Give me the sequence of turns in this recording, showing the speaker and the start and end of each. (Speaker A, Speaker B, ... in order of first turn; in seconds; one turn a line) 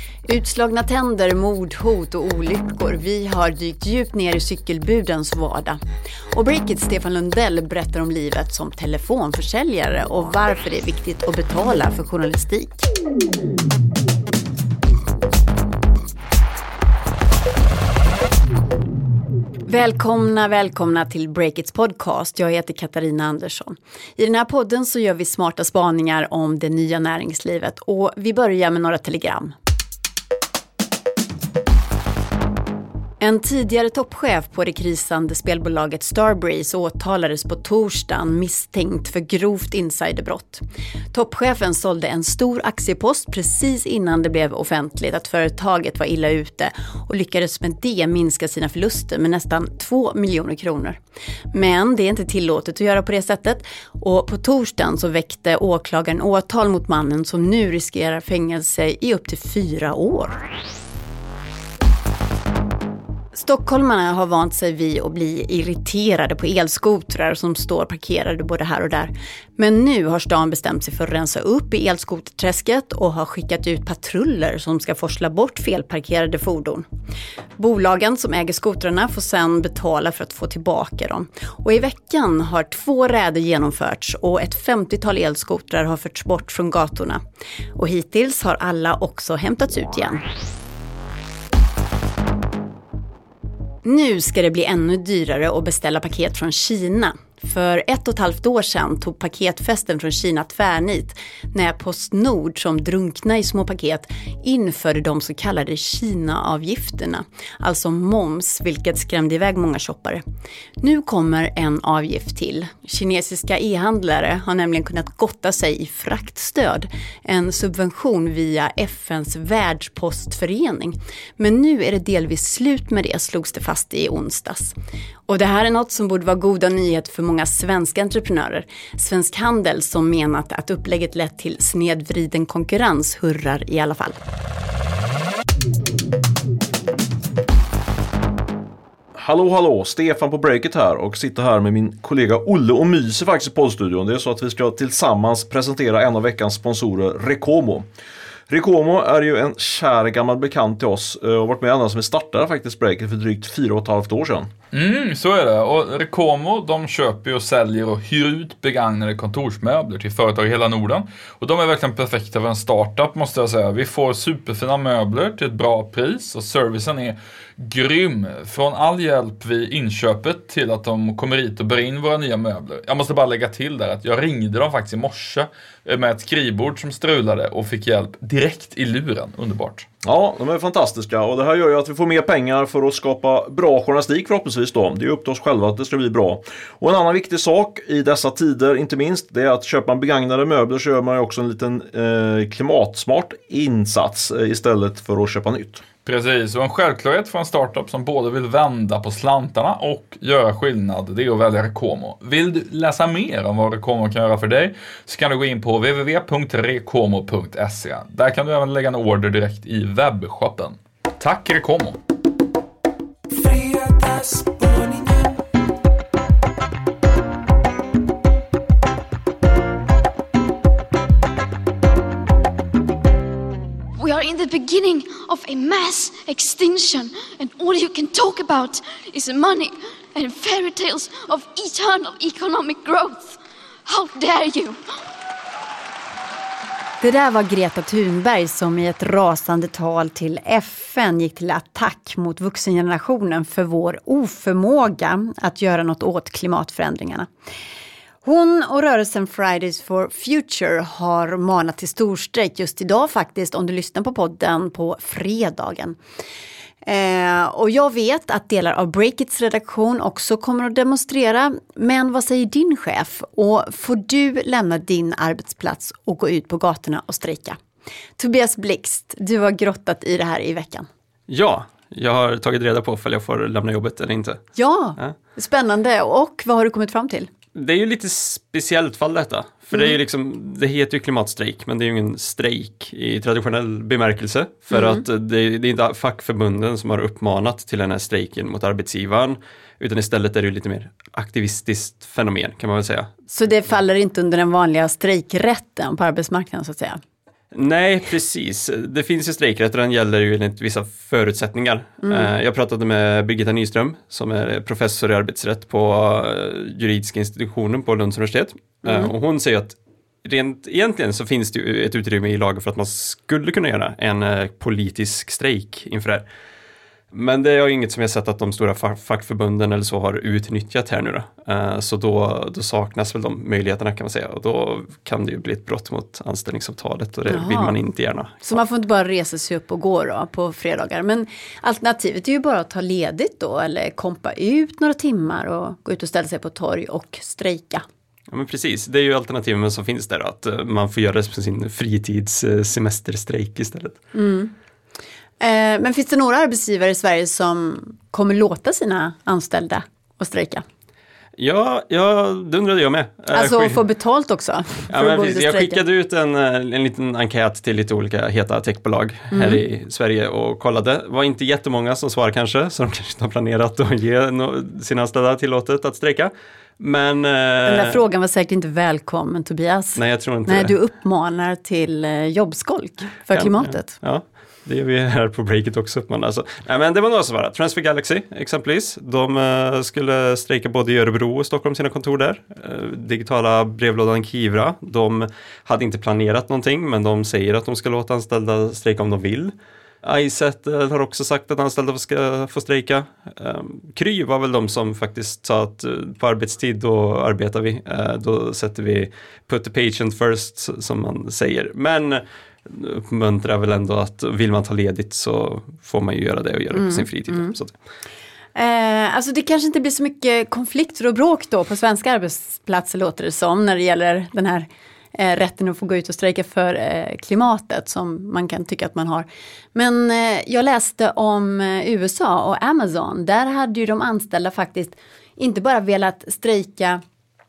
Speaker A: 0.3-5.8
Speaker A: 6.3-12.9
Speaker A: 19.7-29.5
Speaker A: 33.2-51.0
Speaker A: 51.5-60.4
Speaker A: 63.3-76.8
Speaker A: 77.6-87.2
Speaker A: 87.8-90.2
Speaker A: 93.8-110.2
Speaker A: 110.8-124.7
Speaker A: 125.3-134.2
Speaker B: 139.2-147.9
Speaker B: 148.5-154.5
Speaker C: 154.7-179.9
Speaker B: 180.0-195.8
Speaker C: 196.0-212.0
Speaker D: 213.4-215.3
Speaker D: 224.0-233.3
Speaker D: 233.9-234.8
Speaker A: 237.0-247.3
Speaker A: 248.2-256.0
Speaker A: 256.8-267.6
Speaker A: 268.2-270.9
Speaker E: 271.3-274.4
Speaker A: 274.6-277.3
Speaker E: 277.5-293.1
Speaker A: 284.7-285.0
Speaker A: 293.3-297.0
Speaker E: 297.5-316.2
Speaker A: 302.0-302.3
Speaker A: 308.9-309.1
Speaker E: 317.1-328.6
Speaker A: 327.3-327.8
Speaker A: 328.4-337.8
Speaker E: 338.3-344.0
Speaker A: 344.1-344.5
Speaker A: 345.4-350.6
Speaker E: 351.4-353.8
Speaker A: 353.3-355.8
Speaker E: 354.9-368.0
Speaker A: 359.3-359.6
Speaker A: 367.6-373.9
Speaker E: 369.9-370.7
Speaker E: 373.3-407.7
Speaker A: 406.7-407.5
Speaker A: 408.6-427.0